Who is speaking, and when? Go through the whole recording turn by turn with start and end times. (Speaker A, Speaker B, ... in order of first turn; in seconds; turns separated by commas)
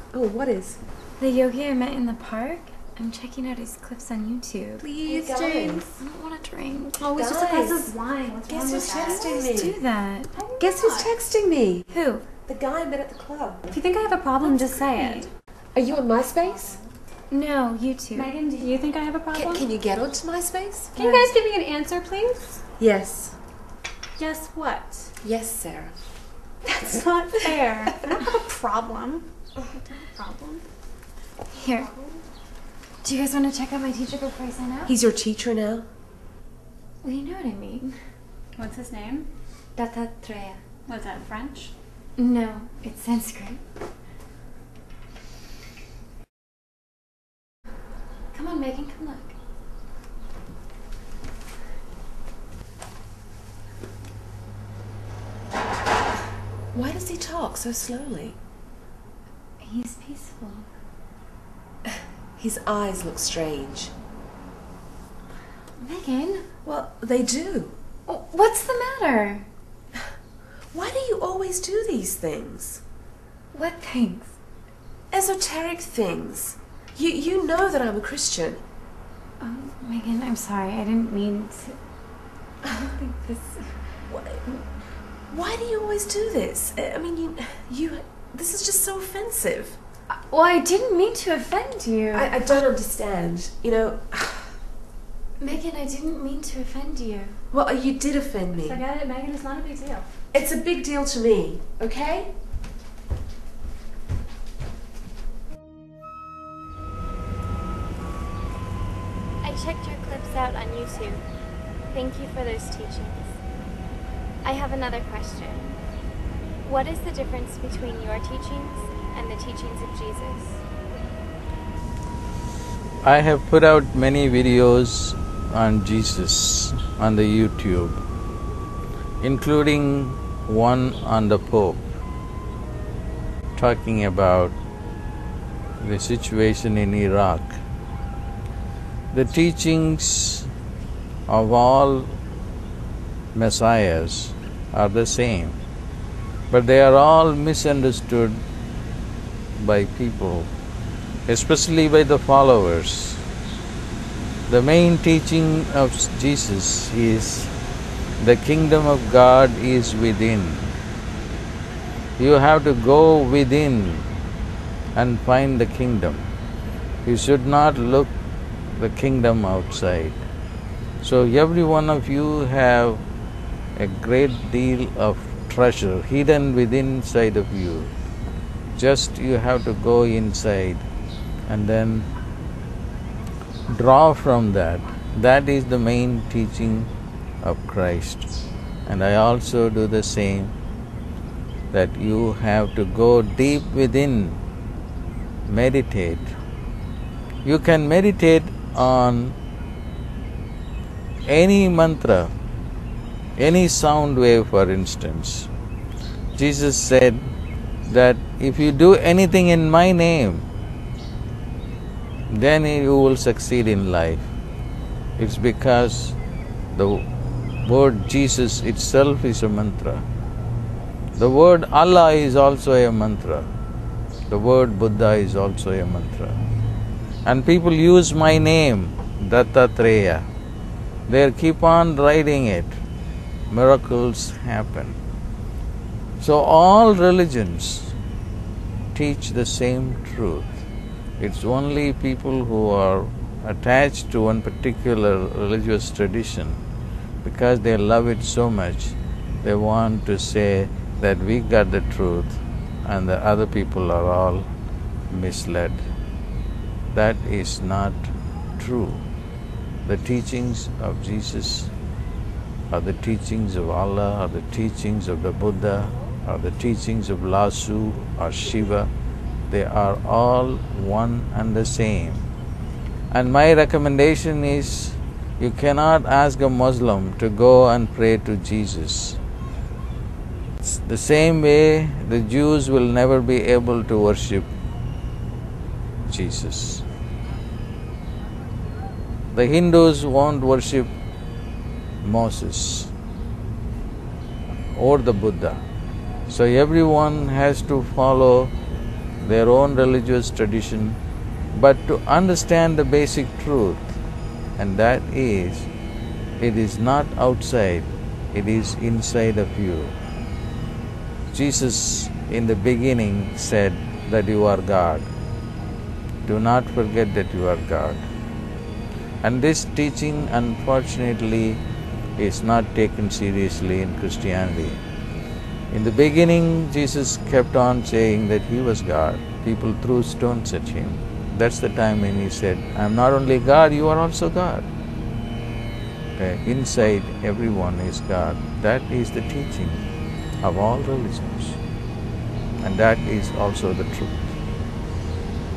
Speaker A: 0.1-0.8, Speaker B: 1.2-4.8, Speaker A: 4.8-5.9, Speaker C: 4.8-5.9, Speaker B: 6.0-7.0, Speaker A: 7.0-7.9, Speaker D: 7.0-9.2, Speaker A: 8.4-9.8, Speaker B: 8.8-10.3, Speaker D: 10.3-11.1, Speaker A: 10.6-11.9, Speaker B: 11.9-12.2, Speaker A: 12.4-13.7, Speaker D: 13.7-15.3, Speaker A: 14.5-15.2, Speaker A: 15.7-16.8, Speaker D: 16.4-16.8, Speaker B: 17.3-18.3, Speaker D: 18.1-19.7, Speaker A: 19.3-20.9, Speaker D: 20.9-22.6, Speaker A: 22.8-23.4, Speaker D: 24.2-25.1, Speaker A: 25.2-26.0, Speaker D: 26.6-29.3, Speaker D: 29.8-30.6, Speaker B: 31.5-31.9, Speaker B: 33.0-34.9, Speaker A: 34.9-35.9, Speaker B: 37.0-38.0, Speaker D: 38.5-39.3, Speaker B: 39.7-40.6, Speaker D: 40.9-41.7, Speaker B: 42.2-43.6, Speaker B: 48.3-49.3, Speaker A: 56.7-58.4, Speaker B: 59.6-60.6, Speaker A: 62.4-63.9, Speaker B: 65.8-66.5, Speaker A: 66.6-67.8, Speaker B: 68.0-69.5, Speaker A: 70.7-72.8, Speaker B: 73.5-74.3, Speaker A: 75.1-78.6, Speaker B: 79.4-81.8, Speaker B: 82.6-83.8, Speaker A: 84.1-84.6, Speaker A: 85.3-89.8, Speaker B: 90.1-92.5, Speaker A: 92.1-94.6, Speaker B: 95.4-97.4, Speaker A: 97.5-98.8, Speaker D: 98.6-100.1, Speaker A: 100.3-102.3, Speaker C: 109.4-111.2, Speaker C: 111.9-113.3, Speaker C: 114.4-115.8, Speaker C: 116.6-120.6, Speaker E: 123.0-128.0, Speaker E: 129.2-131.8, Speaker E: 133.6-134.5, Speaker E: 135.8-137.6, Speaker E: 139.1-140.5, Speaker E: 141.3-142.2, Speaker E: 143.3-145.6, Speaker E: 146.5-148.4, Speaker E: 149.6-150.5, Speaker E: 151.3-153.2, Speaker E: 154.5-157.5, Speaker E: 158.2-160.7, Speaker E: 162.2-164.1, Speaker E: 164.9-166.2, Speaker E: 167.0-168.1, Speaker E: 168.8-170.2, Speaker E: 171.0-173.0, Speaker E: 173.8-177.9, Speaker E: 178.7-180.8, Speaker E: 181.5-182.1, Speaker E: 183.7-186.9, Speaker E: 187.4-188.3, Speaker E: 188.8-190.5, Speaker E: 191.7-194.4, Speaker E: 195.5-196.3, Speaker E: 197.4-199.3, Speaker E: 201.3-202.3, Speaker E: 203.4-205.5, Speaker E: 206.3-207.3, Speaker E: 207.9-210.5, Speaker E: 212.3-214.3, Speaker E: 215.2-216.2, Speaker E: 216.7-217.0, Speaker E: 217.6-220.1, Speaker E: 221.2-223.5, Speaker E: 224.3-226.4, Speaker E: 227.2-230.3, Speaker E: 231.1-232.8, Speaker E: 233.5-235.0, Speaker E: 236.2-237.9, Speaker E: 238.9-240.7, Speaker E: 241.2-246.6, Speaker E: 247.2-254.5, Speaker E: 255.1-255.8, Speaker E: 256.9-259.0, Speaker E: 259.8-261.7, Speaker E: 262.7-268.9, Speaker E: 269.5-272.3, Speaker E: 273.1-279.2, Speaker E: 280.6-284.5, Speaker E: 286.1-286.8, Speaker E: 289.3-290.9, Speaker E: 292.0-292.9, Speaker E: 294.7-295.6, Speaker E: 296.3-298.5, Speaker E: 299.2-301.0, Speaker E: 301.5-304.0, Speaker E: 304.6-305.7, Speaker E: 306.4-310.0, Speaker E: 311.3-315.1, Speaker E: 316.2-318.0, Speaker E: 319.2-321.6, Speaker E: 322.2-324.8, Speaker E: 325.7-334.7, Speaker E: 336.2-339.9, Speaker E: 340.4-341.6, Speaker E: 342.6-344.3